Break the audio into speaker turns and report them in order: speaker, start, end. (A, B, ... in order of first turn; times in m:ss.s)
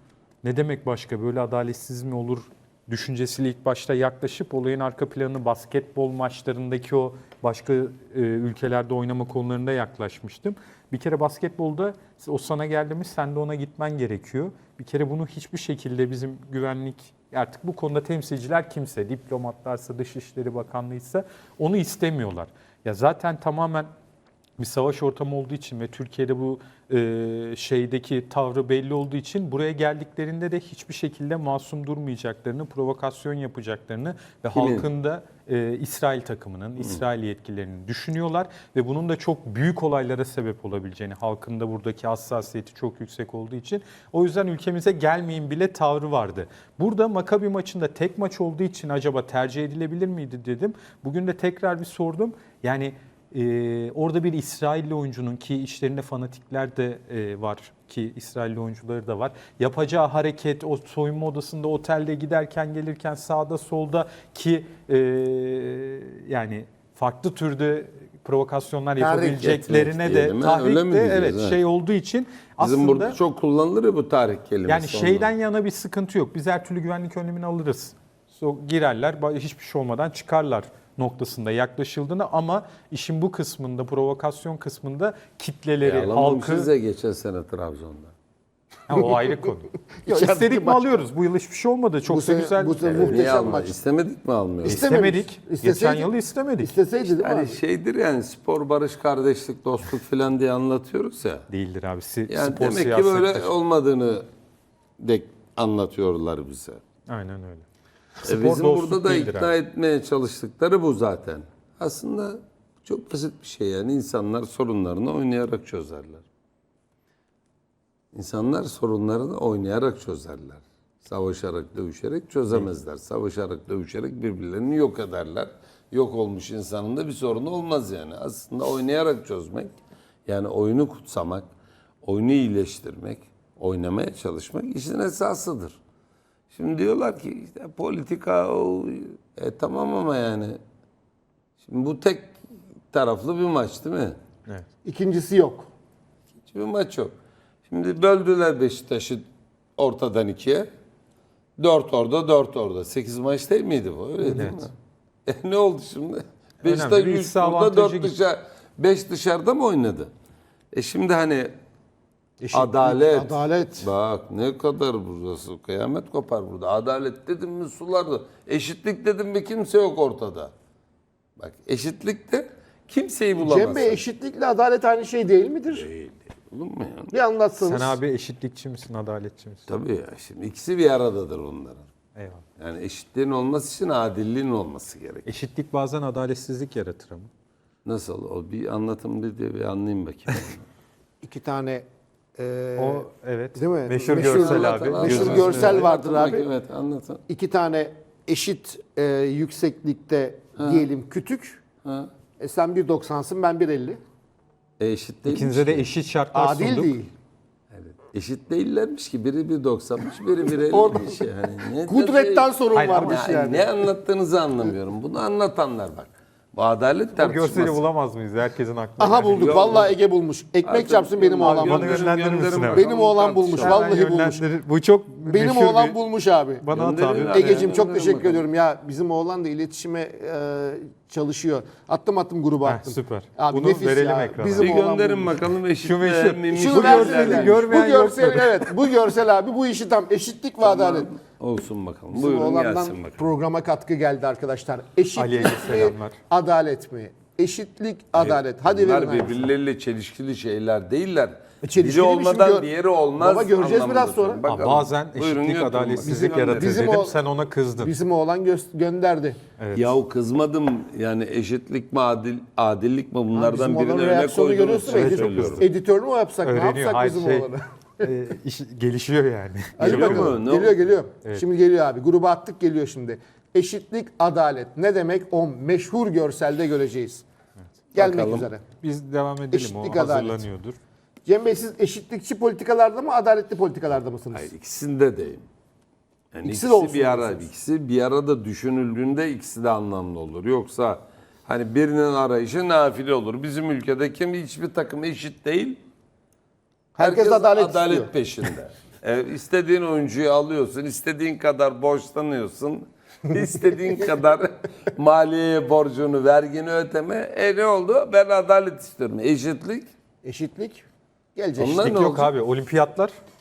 0:00.4-0:23.9 A
0:24.6-1:13.2 A
0:34.5-0:34.9 B
1:09.0-1:09.5 C
1:09.4-1:11.6 B
1:12.6-1:15.3 B
1:14.6-1:26.7 A
1:25.8-1:28.1 B
1:28.9-1:33.3 A
1:30.0-1:31.1 C
1:32.1-1:33.8 C
1:32.8-1:34.9 B
1:34.6-1:37.6 C
1:34.6-1:36.7 A
1:37.0-1:41.5 B
1:41.5-1:43.5 A
1:42.3-1:44.2 B
1:45.0-1:46.8 B
1:47.1-1:47.6 A
1:48.2-1:49.5 A
1:48.2-1:56.2 B
1:58.1-2:09.7 B
2:10.3-2:11.5 B
2:12.0-2:15.8 B
2:16.5-2:20.6 B
2:21.6-2:22.3 B
2:22.9-2:24.2 B
2:24.8-2:25.7 C
2:26.4-2:27.1 B
2:27.7-2:29.2 B
2:29.8-2:30.6 B
2:31.6-2:34.7 B
2:34.2-2:34.6 A
2:35.3-2:40.1 B
2:36.6-2:38.2 A
2:40.7-2:41.5 B
2:42.4-2:43.9 C
2:42.5-2:50.5 B
2:51.4-2:54.0 B
2:53.4-2:55.9 C
2:55.7-2:57.2 B
2:57.1-2:58.0 C
2:57.6-2:59.7 A
2:59.7-3:01.9 B
3:02.1-3:02.4 A
3:02.6-3:05.2 B
3:05.2-3:07.3 A
3:07.8-3:10.7 B
3:11.2-3:11.8 C
3:12.4-3:16.5 C
3:12.8-3:15.8 A
3:14.1-3:17.2 B
3:17.3-3:21.6 C
3:20.6-3:20.9 B
3:21.8-3:22.1 B
3:22.4-3:24.0 C
3:24.8-3:25.8 B
3:25.3-3:27.0 A
3:26.3-3:27.1 C
3:27.7-3:37.8 B
3:30.7-3:31.2 C
3:31.8-3:33.9 C
3:32.7-3:33.2 A
3:37.2-3:39.6 A
3:39.0-3:42.1 C
3:39.2-3:40.0 B
3:40.6-3:43.8 B
3:41.4-3:42.9 A
3:42.7-3:44.4 C
3:43.6-3:46.0 A
3:45.2-3:46.6 C
3:46.6-3:47.7 A
3:46.7-3:48.4 B
3:47.2-3:55.4 C
3:52.6-3:54.8 A
3:54.6-3:57.6 B
3:55.8-3:58.7 A
3:56.5-4:01.1 C
4:00.6-4:03.2 B
4:02.1-4:09.5 C
4:05.2-4:06.2 A
4:08.1-4:17.0 B
4:11.6-4:14.4 C
4:14.4-4:17.9 A
4:16.0-4:17.2 C
4:17.8-4:19.4 C
4:19.6-4:19.9 A
4:19.7-4:25.6 B
4:23.3-4:28.1 C
4:24.8-4:25.7 A
4:26.4-4:27.5 A
4:28.0-4:30.4 A
4:29.8-4:37.2 C
4:29.8-4:30.8 B
4:37.9-4:38.6 C
4:37.9-4:38.5 B
4:38.8-4:40.8 A
4:39.5-4:40.4 C
4:41.2-4:44.5 C
4:44.3-4:45.4 B
4:46.3-4:55.8 B
4:46.4-4:47.5 C
4:57.0-4:58.1 C
4:57.0-5:09.9 B
5:10.2-5:11.9 C
5:11.6-5:12.3 B
5:11.7-5:13.1 A